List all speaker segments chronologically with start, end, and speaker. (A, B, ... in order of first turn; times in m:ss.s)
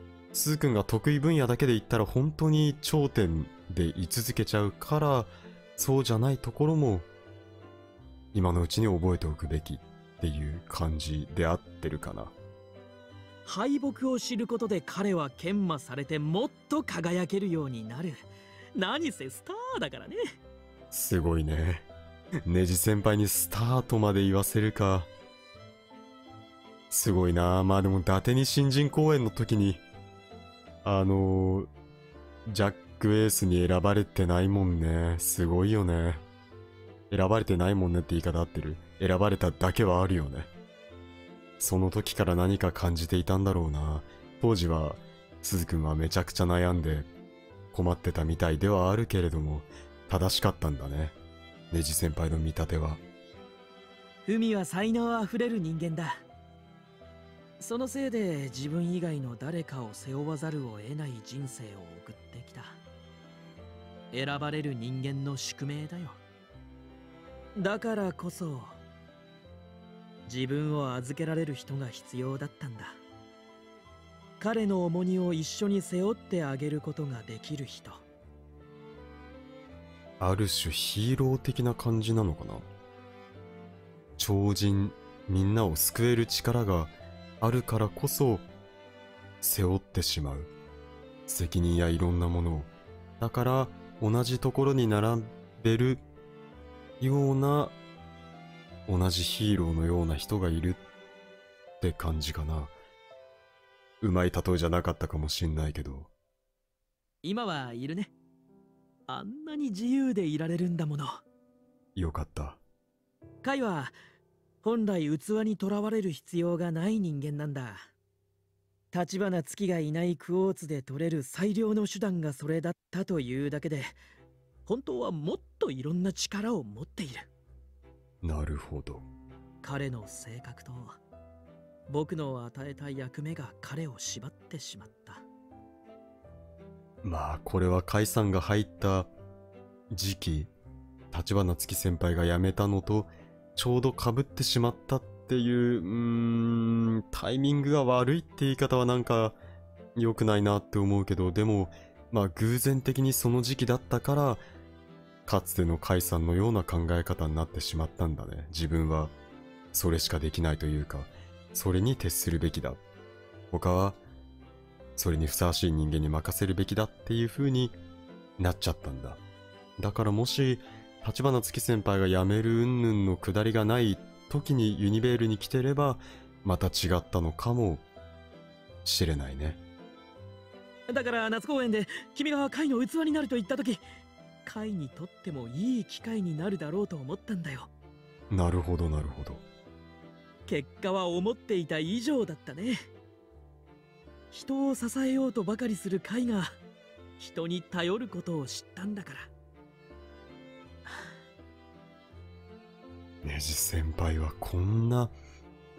0:00.3-0:07.1 A
0:08.3-0:12.3 A
0:13.5-0:20.2 B
0:20.9-0:21.9 A
0:22.5-0:25.1 A
0:26.9-0:29.8 A
0:30.8-0:31.7 A
0:32.5-0:36.2 A
0:37.1-0:40.5 A
0:41.6-0:47.1 A
0:47.7-0:51.2 A
0:51.7-0:53.0 A
0:54.3-0:56.2 B
0:57.6-1:02.8 B
1:04.1-1:06.2 B
1:07.6-1:08.8 B
1:10.3-1:13.0 B
1:14.4-1:18.0 B
1:20.2-1:22.7 A
1:24.2-1:28.5 A
1:29.4-1:30.5 A
1:31.3-1:36.0 A
1:37.0-1:37.8 A
1:38.9-1:40.8 A
1:41.8-1:42.7 A
1:44.0-1:46.1 A
1:47.2-1:48.1 B
1:49.1-1:51.2 B
1:52.0-1:52.6 A
1:53.4-1:54.0 B
1:54.6-1:57.9 B
1:58.9-2:04.0 B
2:04.7-2:07.3 B
2:08.2-2:09.0 A
2:09.6-2:11.0 B
2:11.9-2:15.2 B
2:17.0-2:19.1 A
2:19.9-2:20.5 A
2:21.1-2:29.4 A
2:30.0-2:34.4 A
2:35.3-2:39.1 A
2:39.7-2:42.8 A
2:43.5-2:44.0 A
2:45.0-2:47.8 A
2:48.4-2:49.2 A
2:49.8-2:57.8 A
2:58.8-2:59.6 A
3:00.9-3:03.8 B
3:04.4-3:07.7 B
3:08.3-3:09.4 A
3:10.5-3:12.9 B
3:14.3-3:16.6 B
3:17.2-3:19.3 B
3:20.8-3:21.1 B
3:23.2-3:25.1 A